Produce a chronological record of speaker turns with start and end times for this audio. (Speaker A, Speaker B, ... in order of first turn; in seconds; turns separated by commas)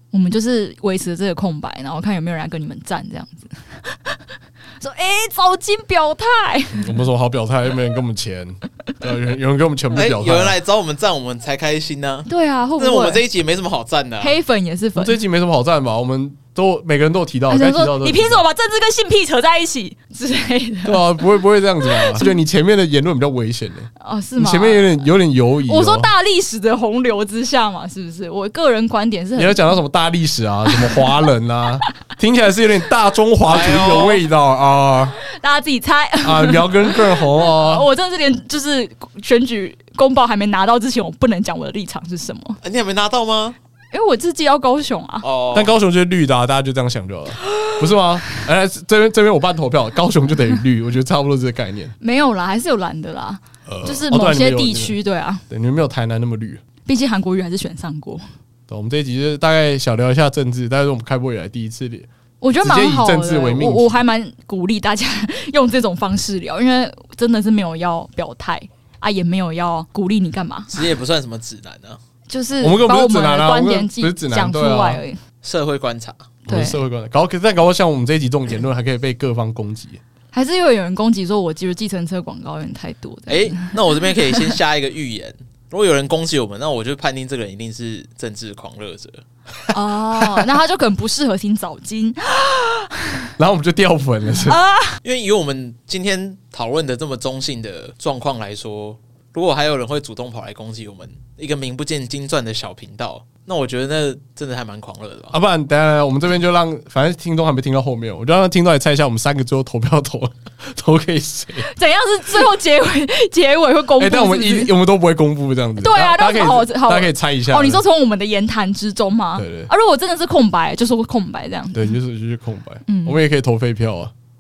Speaker A: 0.1-4.2, Speaker A: 4.8-7.0, Speaker B: 6.8-10.6, Speaker C: 9.9-14.4, Speaker A: 12.3-13.2, Speaker A: 14.2-15.2, Speaker B: 15.0-18.4, Speaker A: 17.5-21.3, Speaker B: 20.9-26.1, Speaker A: 21.8-22.3, Speaker A: 24.0-25.0, Speaker A: 25.7-29.8, Speaker B: 29.4-35.2, Speaker C: 33.5-34.2, Speaker A: 35.2-42.6, Speaker B: 36.2-37.9, Speaker C: 42.6-43.6, Speaker A: 43.9-45.2, Speaker C: 45.2-45.8, Speaker B: 45.5-52.0, Speaker A: 52.0-55.5, Speaker B: 53.7-55.0, Speaker B: 55.5-56.6, Speaker A: 56.9-58.2, Speaker B: 58.7-62.1, Speaker A: 62.4-70.8, Speaker B: 62.6-64.0, Speaker C: 70.7-72.0, Speaker A: 72.3-75.2, Speaker B: 72.6-75.0, Speaker C: 75.4-76.4, Speaker A: 76.5-76.8, Speaker B: 76.5-80.0, Speaker A: 80.3-83.8, Speaker C: 83.3-89.2, Speaker A: 89.7-93.3, Speaker B: 93.4-94.6, Speaker A: 94.4-95.0, Speaker C: 95.0-105.3, Speaker B: 105.3-111.7, Speaker A: 111.6-114.7, Speaker B: 114.0-117.8, Speaker A: 115.8-122.0, Speaker B: 119.4-119.7, Speaker B: 121.7-124.1, Speaker A: 122.9-123.2